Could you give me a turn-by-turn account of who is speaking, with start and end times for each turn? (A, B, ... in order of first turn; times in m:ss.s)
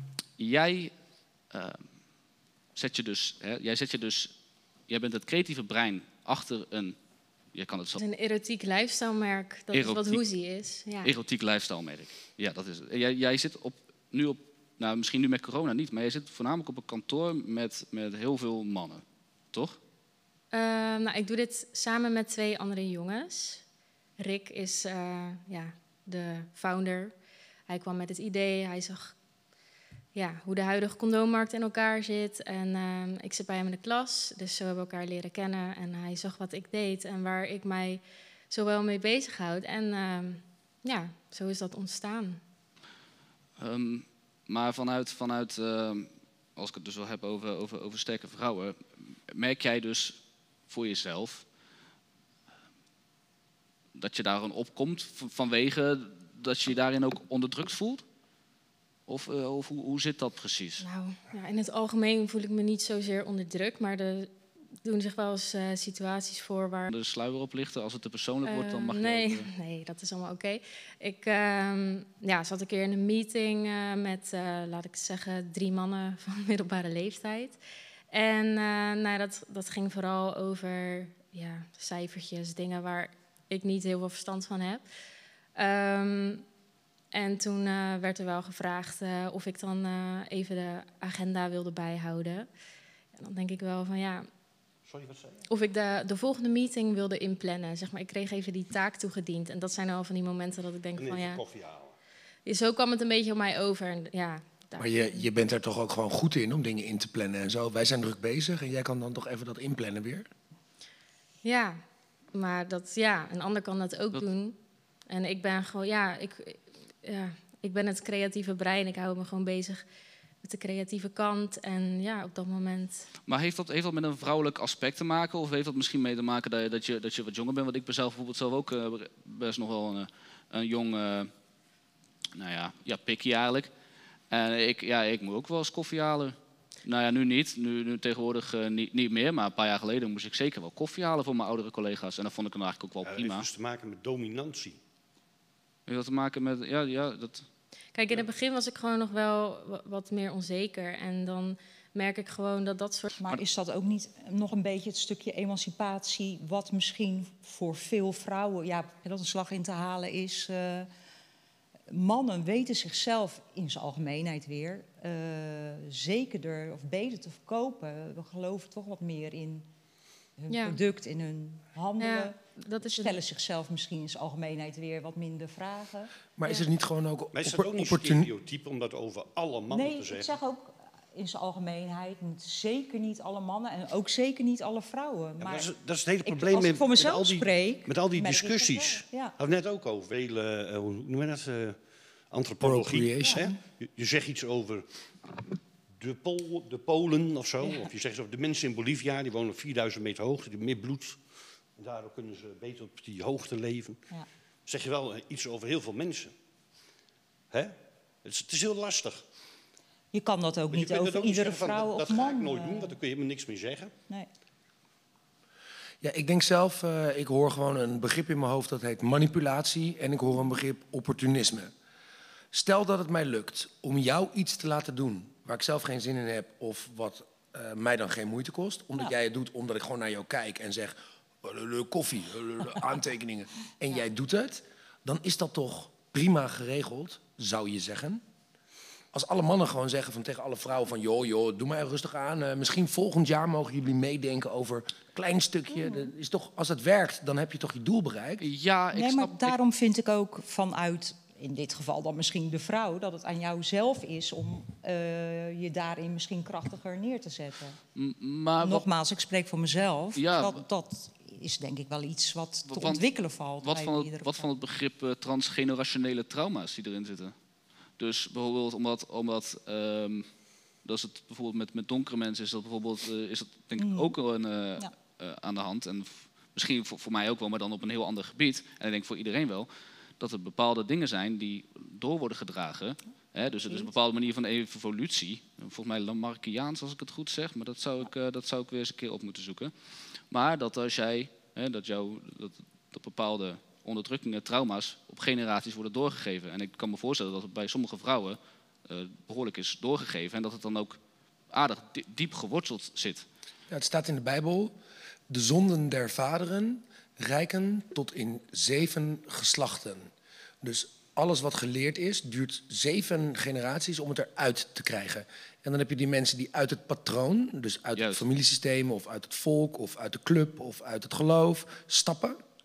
0:00.4-0:00.9 A
0:01.5-0:01.9 A
0:02.8-0:04.4 A
0:04.9-0:07.0 A
0:07.5-0:08.0 A
0:08.0-0:11.1 B
0:09.7-0:10.2 A
0:11.0-0:19.8 A
0:20.5-0:23.6 B
0:24.2-0:27.1 B
0:27.7-0:29.1 B
0:30.2-0:42.4 B
0:43.6-0:51.5 A
0:54.0-0:58.0 A
0:59.1-1:00.8 A
1:00.8-1:04.3 B
1:04.8-1:06.9 B
1:06.9-1:09.5 A
1:08.5-1:17.6 B
1:18.1-1:24.8 B
1:25.6-1:26.4 B
1:27.1-1:32.5 B
1:33.2-1:34.3 B
1:34.9-1:35.4 C
1:35.5-1:41.4 B
1:41.0-1:42.0 C
1:42.4-1:45.2 B
1:44.8-1:50.3 D
1:51.4-1:51.8 B
1:52.3-1:54.6 B
1:55.1-1:59.8 B
2:00.4-2:03.1 B
2:03.3-2:11.3 A
2:12.4-2:13.7 A
2:14.3-2:23.5 A
2:23.0-2:24.8 C
2:25.9-2:27.5 A
2:27.9-2:33.1 B
2:33.2-2:40.9 E
2:41.9-2:49.7 E
2:50.4-2:56.1 E
2:50.5-2:50.8 B
2:52.0-2:53.2 B
2:56.4-2:58.3 D
2:57.4-3:00.3 C
2:59.7-3:05.7 E
3:05.4-3:11.8 C
3:06.2-3:09.3 E
3:12.3-3:14.9 C
3:12.6-3:13.4 D
3:13.2-3:13.5 E
3:16.0-3:21.2 C
3:21.8-3:24.0 C
3:24.7-3:26.3 C
3:27.5-3:29.2 C
3:30.1-3:32.9 E
3:30.7-3:33.9 C
3:36.0-3:41.7 D
3:42.5-3:58.2 D
3:59.1-4:08.5 D
4:08.4-4:09.6 A
4:08.9-4:17.8 E
4:18.0-4:18.8 A
4:18.6-4:24.5 E
4:20.2-4:20.6 A
4:22.7-4:27.4 A
4:28.0-4:30.3 A
4:30.8-4:49.7 A
4:33.8-4:34.2 E
4:50.3-5:01.0 A
5:01.5-5:03.3 A
5:03.7-5:04.8 D
5:05.3-5:10.1 D
5:10.6-5:22.4 D
5:18.0-5:18.2 A